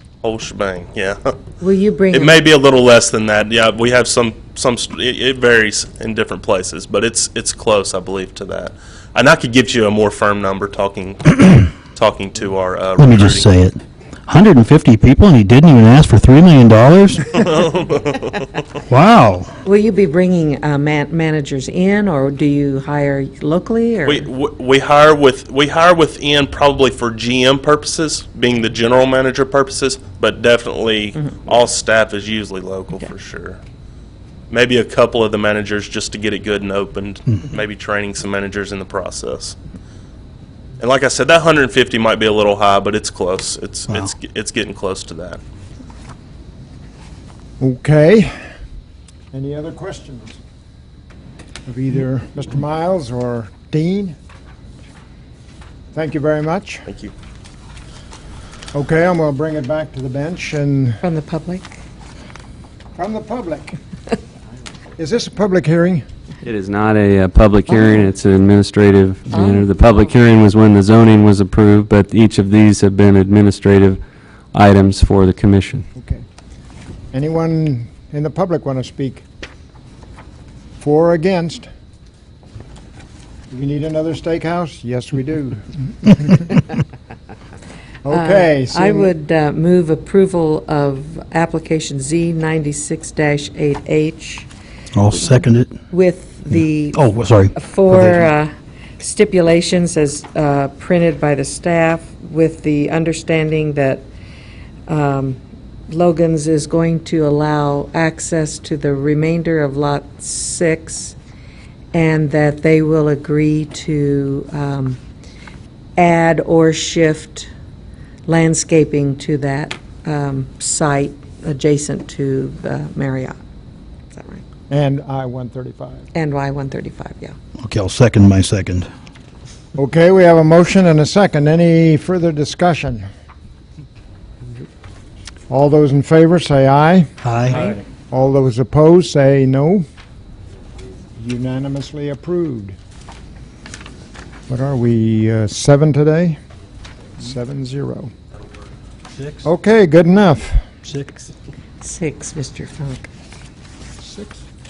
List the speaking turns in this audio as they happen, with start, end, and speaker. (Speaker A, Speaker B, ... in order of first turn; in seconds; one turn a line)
Speaker A: 0.2-1.4
Speaker B: 1.6-2.4
Speaker A: 2.1-13.5
Speaker C: 13.0-17.4
Speaker A: 17.4-18.3
Speaker C: 18.9-19.5
Speaker B: 19.6-24.3
Speaker A: 24.0-33.6
Speaker A: 34.5-39.6
Speaker A: 40.8-45.4
Speaker D: 47.6-48.3
Speaker D: 49.3-50.4
Speaker D: 51.7-54.2
Speaker D: 55.9-56.9
Speaker A: 56.9-57.1
Speaker D: 58.7-61.0
Speaker B: 61.0-61.8
Speaker D: 63.0-63.8
Speaker D: 65.0-66.0
Speaker E: 66.4-74.0
Speaker B: 69.3-69.7
Speaker E: 74.5-75.9
Speaker D: 76.0-76.2
Speaker D: 77.1-79.2
Speaker D: 80.8-81.7
Speaker D: 83.5-86.6
Speaker D: 88.0-89.1
Speaker B: 88.1-94.5
Speaker C: 94.9-95.8
Speaker B: 95.2-104.1
Speaker C: 96.9-98.2
Speaker B: 104.9-111.2
Speaker B: 111.9-115.0
Speaker B: 116.0-117.5
Speaker B: 118.3-123.4
Speaker B: 124.2-124.4
Speaker D: 124.7-126.1
Speaker B: 126.1-127.3
Speaker C: 127.6-128.9
Speaker D: 129.8-133.1
Speaker D: 135.5-137.1
Speaker C: 137.2-137.8
Speaker D: 137.9-139.8
Speaker D: 141.2-142.8
Speaker D: 144.5-146.4
Speaker D: 147.2-148.1
Speaker C: 149.2-149.4
Speaker D: 149.4-150.7
Speaker C: 150.8-151.3
Speaker B: 151.8-153.1
Speaker D: 154.0-154.4